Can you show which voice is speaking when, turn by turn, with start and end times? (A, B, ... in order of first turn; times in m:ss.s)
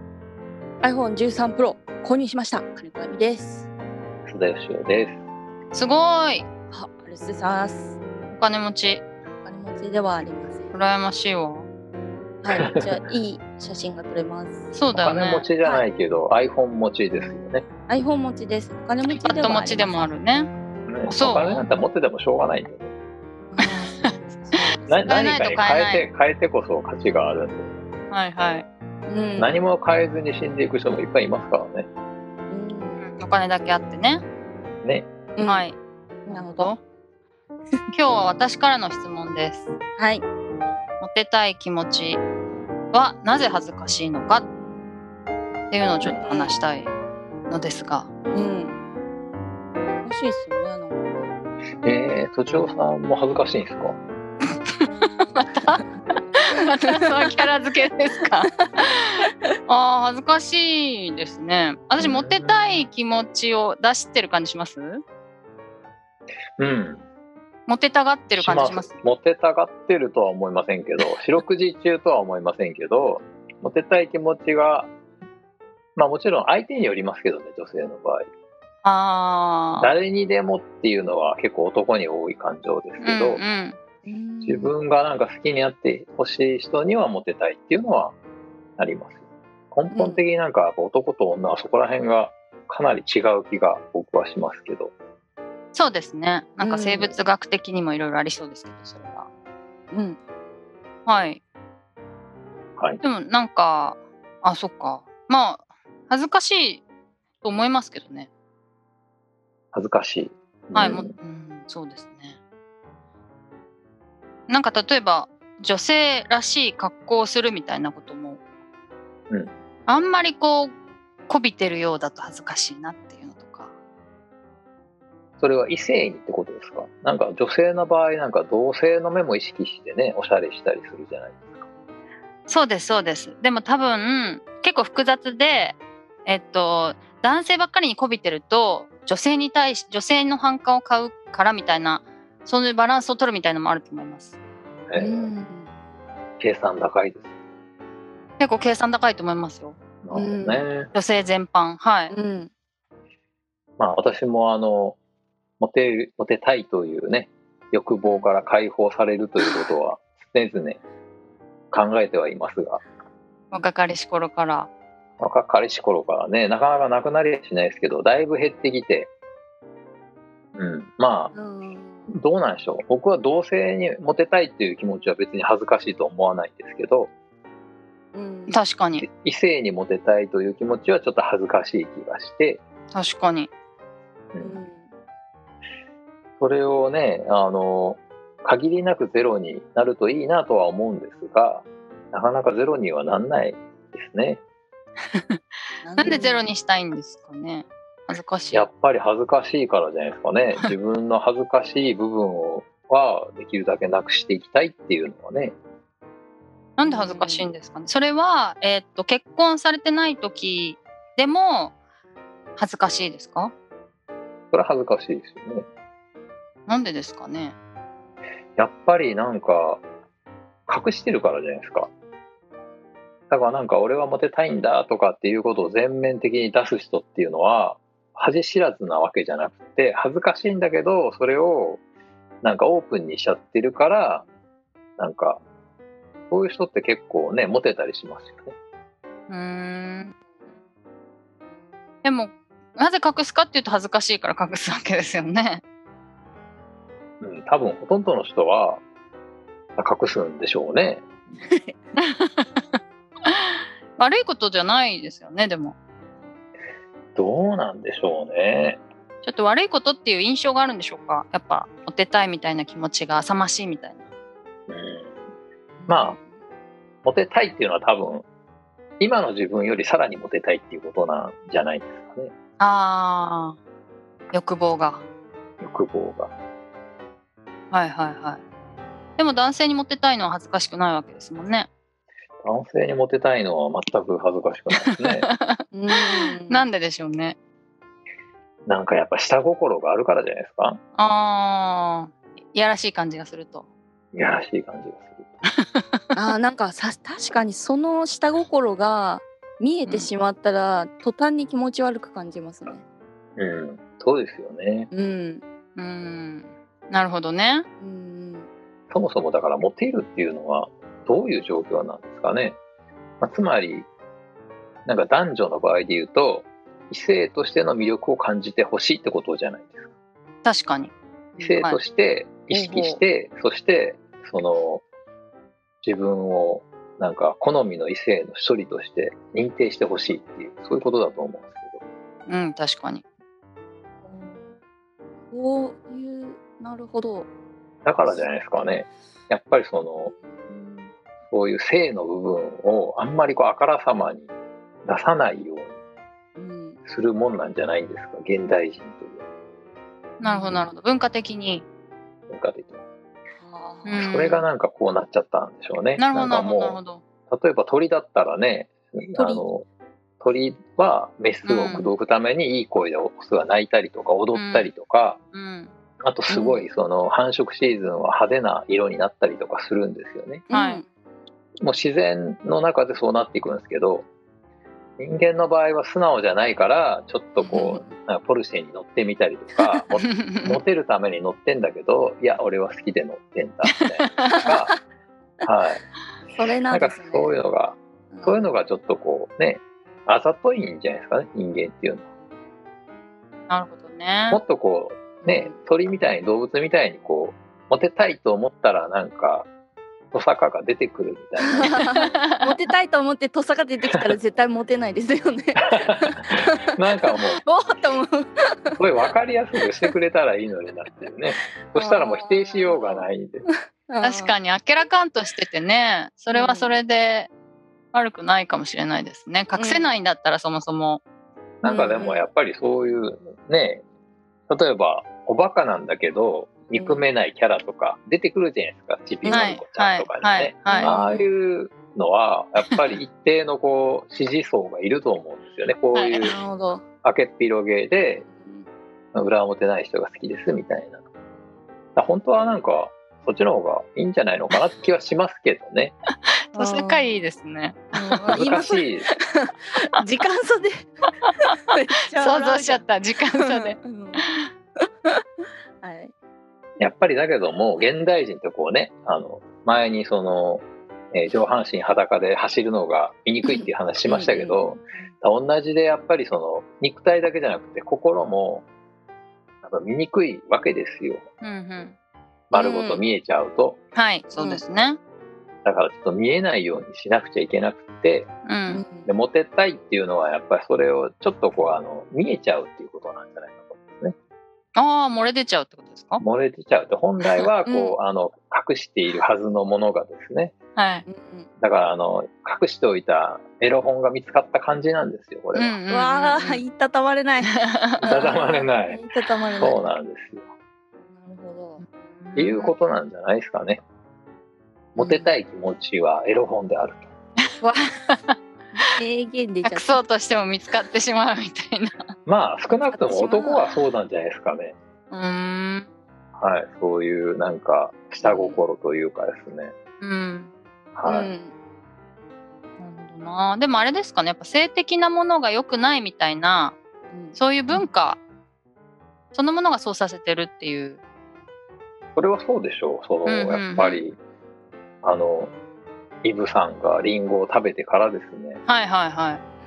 0:00.8-0:03.7 A
0:04.2-0:05.2 B
0:05.7-0:06.5 C
0:06.7-0:08.0 A
0:08.3-0:09.0 C
0:09.4-0:10.7 A
0:10.7-0:11.7 C
0:12.4-0:14.7 A
0:12.5-0:12.9 B
0:14.7-0:15.5 C
0:14.9-0:17.6 B
0:15.6-0:15.8 A
0:17.9-0:20.1 A
0:19.0-0:20.5 C
0:20.9-0:22.9 B
0:21.0-0:21.6 C
0:23.5-0:25.1 A
0:23.7-0:26.0 C
0:24.9-0:27.7 B
0:28.1-0:28.6 C
0:29.0-0:29.6 A
0:29.4-0:31.9 B
0:32.5-0:33.1 A
0:33.0-0:34.2 C
0:34.8-0:35.1 B
0:35.4-0:35.7 A
0:35.4-0:35.8 C
0:36.2-0:36.7 A
0:36.3-0:36.8 C
0:37.9-0:39.7 C
0:40.0-0:40.2 A
0:41.0-0:42.2 C
0:42.9-0:44.4 C
0:45.7-0:46.9 C
0:46.2-0:46.6 A
0:47.5-0:48.1 C
0:48.3-0:48.8 A
0:50.0-0:51.3 A
0:51.8-0:54.0 B
0:54.7-0:55.8 C
0:56.4-0:58.5 C
0:56.5-0:57.4 A
0:58.5-0:59.5 A
0:59.7-1:05.0 C
1:02.0-1:02.8 B
1:06.6-1:07.0 B
1:07.7-1:08.9 C
1:08.4-1:14.9 B
1:16.0-1:18.3 B
1:18.8-1:19.9 C
1:19.8-1:23.4 B
1:23.0-1:23.8 C
1:24.0-1:24.7 A
1:24.4-1:28.2 B
1:28.8-1:34.9 B
1:29.9-1:30.2 A
1:35.7-1:39.3 C
1:36.6-1:37.1 A
1:39.9-1:40.2 A
1:41.0-1:41.4 C
1:43.0-1:46.8 C
1:47.4-1:48.3 C
1:49.7-1:51.1 B
1:50.7-1:52.4 C
1:54.5-1:58.4 C
1:59.9-2:00.7 C
2:01.3-2:03.7 C
2:05.4-2:11.6 B
2:12.5-2:24.3 C
2:24.9-2:25.3 B
2:25.0-2:25.7 A
2:26.4-2:27.3 B
2:28.4-2:29.8 C
2:30.0-2:30.9 B
2:30.1-2:30.7 A
2:30.9-2:32.1 C
2:32.1-2:32.5 A
2:33.8-2:35.0 B
2:35.6-2:40.8 B
2:38.0-2:38.3 C
2:41.7-2:42.8 B
2:43.5-2:44.7 C
2:45.2-2:49.1 B
2:50.5-2:51.3 B
2:51.3-2:52.1 A
2:52.1-2:57.1 B
2:58.1-2:58.6 A
2:58.5-2:59.0 C
2:59.0-3:02.6 B
3:02.9-3:03.5 C
3:04.3-3:04.6 B
3:04.4-3:04.9 A
3:06.4-3:14.4 B
3:15.1-3:15.4 C
3:15.8-3:16.5 A
3:16.0-3:18.7 C
3:18.5-3:25.6 B
3:26.8-3:31.7 C
3:26.8-3:27.5 A
3:32.6-3:33.5 C
3:34.5-3:35.6 B
3:36.7-3:37.5 C
3:38.6-3:39.8 B
3:40.7-3:41.9 B
3:43.3-3:51.8 B
3:52.4-3:54.2 B
3:55.0-3:55.4 B
3:56.3-3:58.5 B
3:59.3-4:00.1 C
4:02.0-4:05.6 C
4:07.2-4:08.8 B
4:09.8-4:11.1 B
4:11.4-4:11.7 A
4:12.0-4:15.7 C
4:17.1-4:18.8 B
4:19.2-4:24.0 C
4:24.7-4:25.2 B
4:25.8-4:26.4 A
4:25.9-4:26.2 B
4:27.0-4:28.2 B
4:29.0-4:32.3 B
4:32.6-4:33.6 C
4:34.3-4:35.0 C
4:35.6-4:36.3 B
4:37.7-4:38.4 C
4:39.2-4:41.7 C
4:42.4-4:45.3 B
4:45.2-4:47.4 C
4:45.7-4:46.7 A
4:48.6-4:50.8 B
4:51.0-4:53.6 C
4:54.1-4:55.4 B
4:55.5-4:56.0 C
4:56.1-5:02.8 A
4:59.8-5:00.1 C
5:03.4-5:04.9 B
5:04.9-5:05.4 A
5:05.8-5:07.6 C
5:07.8-5:08.5 A
5:08.9-5:12.6 B
5:13.2-5:13.9 B
5:14.8-5:19.9 B
5:20.4-5:20.9 C
5:21.4-5:24.8 B
5:22.5-5:23.0 A
5:25.8-5:31.8 B
5:32.3-5:33.0 C
5:34.0-5:34.5 A
5:35.3-5:37.3 A
5:37.8-5:40.1 B
5:40.0-5:40.9 A
5:41.3-5:44.3 B
5:44.8-5:45.7 B
5:46.4-5:46.8 A
5:46.8-5:49.2 B
5:50.2-5:51.6 C
5:50.2-5:50.6 A
5:52.3-5:52.8 B
5:53.4-5:54.0 A
5:53.8-5:54.4 C
5:54.0-5:59.6 B
5:56.0-5:57.0 C
5:59.1-5:59.5 A
6:00.2-6:05.2 B
6:01.4-6:01.9 C
6:04.3-6:04.7 C
6:05.3-6:05.7 C
6:06.0-6:10.4 B
6:06.3-6:06.7 A
6:10.5-6:10.9 A
6:10.5-6:10.8 C
6:11.6-6:14.1 B
6:15.0-6:24.7 B
6:17.4-6:17.9 A
6:20.1-6:20.6 C
6:25.4-6:25.8 B
6:26.3-6:27.5 A
6:26.7-6:32.0 B
6:28.1-6:28.5 A
6:33.5-6:34.4 C
6:34.3-6:39.5 B
6:35.2-6:35.6 A
6:40.1-6:41.8 B
6:41.4-6:50.0 A
6:41.8-6:42.6 C
6:45.6-6:47.4 B
6:48.7-6:53.4 B
6:51.4-6:54.4 A
6:54.0-6:57.3 C
6:56.3-6:56.7 A
6:57.9-7:01.0 C
6:59.5-7:00.0 A
7:01.6-7:03.8 B
7:01.6-7:02.3 A
7:04.5-7:16.4 B
7:06.7-7:07.0 A
7:09.2-7:09.5 A
7:09.3-7:10.9 C
7:10.7-7:11.3 A
7:15.9-7:16.2 C
7:16.2-7:16.8 A
7:17.0-7:18.2 B
7:18.2-7:18.7 A
7:19.1-7:21.0 B
7:21.9-7:25.9 B
7:26.5-7:27.2 A
7:26.5-7:28.4 C
7:27.9-7:32.8 A
7:28.3-7:29.1 B
7:32.0-7:34.4 C
7:33.3-7:34.2 A
7:34.8-7:36.1 A
7:36.8-7:48.6 B
7:43.4-7:45.1 A
7:49.6-7:51.2 B
7:51.4-7:51.9 C
7:52.5-7:53.8 B
7:52.5-7:53.0 A
7:53.9-7:55.0 C
7:55.6-7:58.3 B
7:58.4-7:58.8 C
7:58.7-7:59.1 A
7:59.0-8:04.1 B
8:04.8-8:06.2 C
8:06.2-8:10.5 B
8:07.2-8:07.9 C
8:10.8-8:11.0 C
8:11.0-8:11.5 A
8:11.6-8:15.8 B
8:15.5-8:16.6 C
8:15.9-8:17.5 A
8:17.4-8:18.2 C
8:18.0-8:19.0 B
8:18.0-8:19.9 A
8:19.5-8:20.5 B
8:21.1-8:21.8 A
8:21.8-8:22.7 C
8:22.4-8:23.8 B
8:25.0-8:27.1 B
8:25.0-8:25.3 C
8:27.6-8:28.4 C
8:28.7-8:30.0 A
8:29.6-8:32.1 C
8:32.2-8:34.8 B
8:32.9-8:33.8 A
8:35.1-8:35.9 C
8:36.4-8:39.7 B
8:38.2-8:38.6 C
8:40.0-8:40.5 C
8:41.0-8:41.3 B
8:41.0-8:41.5 A
8:42.8-8:46.8 C
8:47.1-8:47.4 A
8:47.3-8:48.2 C
8:49.3-8:51.0 C
8:52.2-8:54.2 B
8:53.2-8:54.0 C
8:55.0-8:55.5 B
8:56.2-8:58.6 B
8:58.7-8:59.4 C